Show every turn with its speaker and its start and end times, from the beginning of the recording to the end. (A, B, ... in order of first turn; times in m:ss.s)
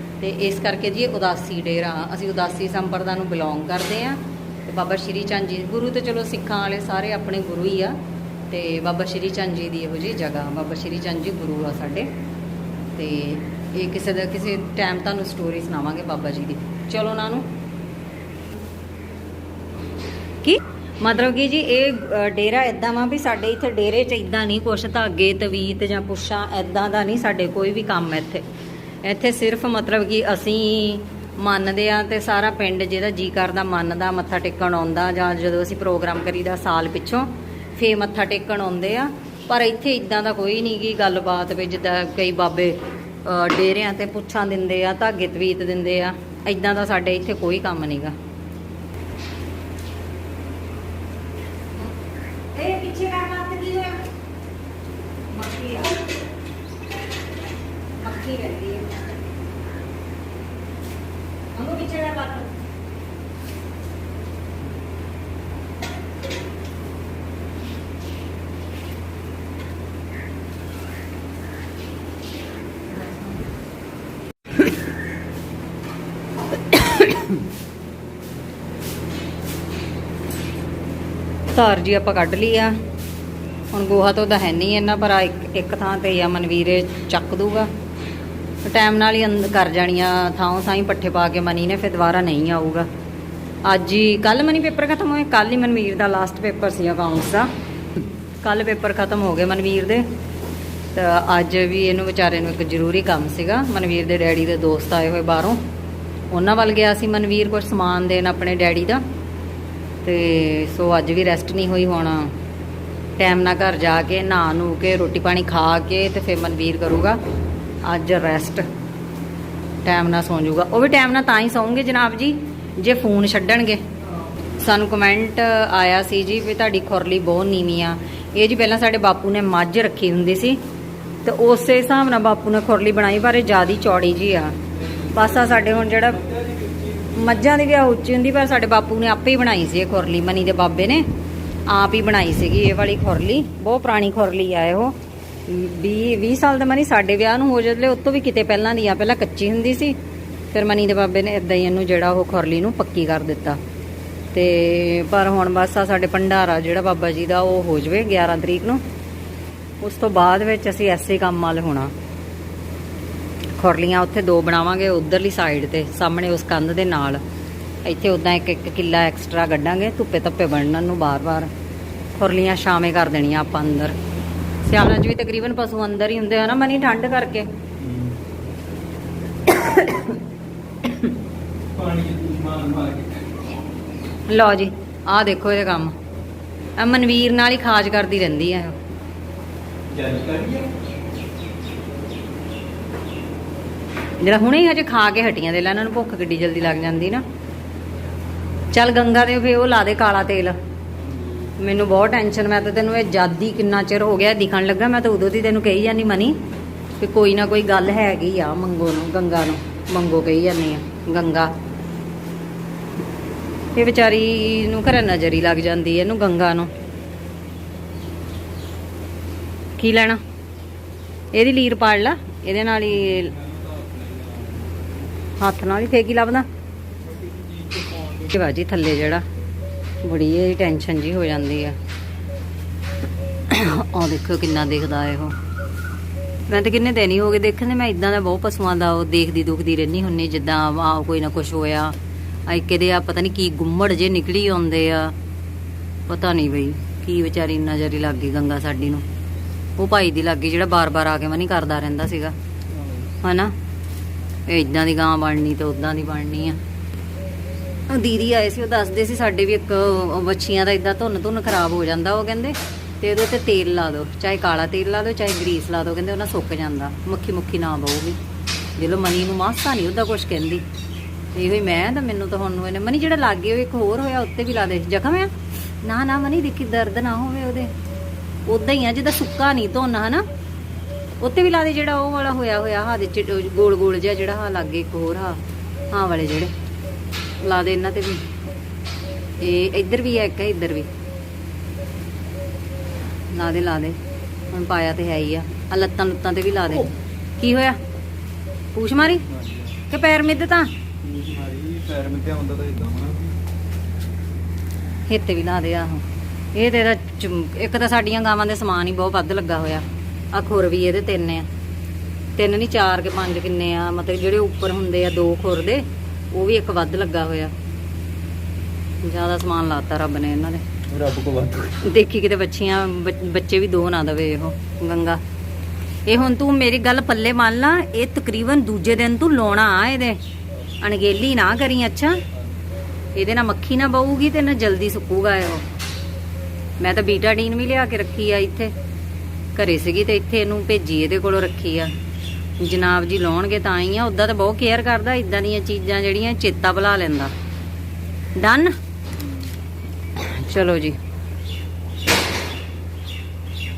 0:00.2-0:08.0 A
0:08.5-0:12.1 A
0:13.0-0:17.5 A
0:20.4-0:28.4 A
0:29.0-0:48.2 A
0:52.5-0:54.0 A
0:55.3-0:56.0 A
0:58.0-0:59.0 A
1:01.5-1:02.5 A
1:16.7-1:17.3 A
1:21.5-1:22.8 A
1:23.7-1:27.7 A
1:28.6-1:32.9 A
1:33.6-1:37.5 A
1:38.4-1:40.1 A
1:40.9-1:45.6 A
1:46.3-1:49.0 A
1:50.0-1:52.3 A
1:53.2-1:57.2 A
1:57.8-1:58.6 A
1:59.8-2:03.9 A
2:04.5-2:10.6 A
2:11.2-2:14.6 A
2:14.9-2:17.4 B
2:15.1-2:16.2 A
2:17.1-2:21.0 A
2:21.7-2:30.0 A
2:30.5-2:33.6 A
2:34.3-2:38.8 A
2:39.8-2:41.9 A
2:43.6-2:47.2 A
2:47.8-2:51.5 A
2:52.1-2:54.0 A
2:54.6-2:57.5 A
2:57.8-2:58.2 B
2:59.5-3:00.2 A
3:00.8-3:01.1 A
3:01.7-3:03.3 B
3:04.3-3:05.9 A
3:06.8-3:08.8 A
3:09.9-3:10.7 B
3:14.2-3:17.2 A
3:18.7-3:20.6 A
3:21.6-3:26.4 A
3:27.0-3:31.5 A
3:33.7-3:36.7 A
3:39.8-3:40.2 A
3:41.3-3:43.3 A
3:42.9-3:44.9 B
3:45.4-3:46.5 A
3:47.0-3:48.3 B
3:48.2-3:49.2 A
3:50.0-3:51.8 A
3:53.5-3:55.4 A
3:56.5-4:01.9 A
4:02.5-4:05.1 A
4:06.1-4:09.0 A
4:09.8-4:12.3 A
4:13.2-4:13.5 A
4:14.5-4:16.6 A
4:17.9-4:28.2 A
4:28.8-4:30.6 A
4:31.3-4:37.7 A
4:38.4-4:40.2 A
4:41.2-4:45.4 A
4:45.9-4:46.5 A
4:47.4-4:48.2 A
4:49.4-4:50.9 A
4:53.3-4:54.0 A
4:54.5-4:57.8 A
4:58.7-4:59.2 A
4:59.2-4:59.8 B
4:59.9-5:00.7 A
5:01.0-5:03.3 B
5:05.1-5:11.5 A
5:12.4-5:17.5 A
5:19.0-5:20.6 A
5:20.9-5:21.8 B
5:21.7-5:25.2 A
5:26.0-5:30.2 A
5:30.8-5:32.2 A
5:33.2-5:35.7 A
5:36.8-5:38.7 A
5:39.5-5:41.9 A
5:42.6-5:47.3 A
5:48.4-5:48.8 A
5:50.2-5:51.0 A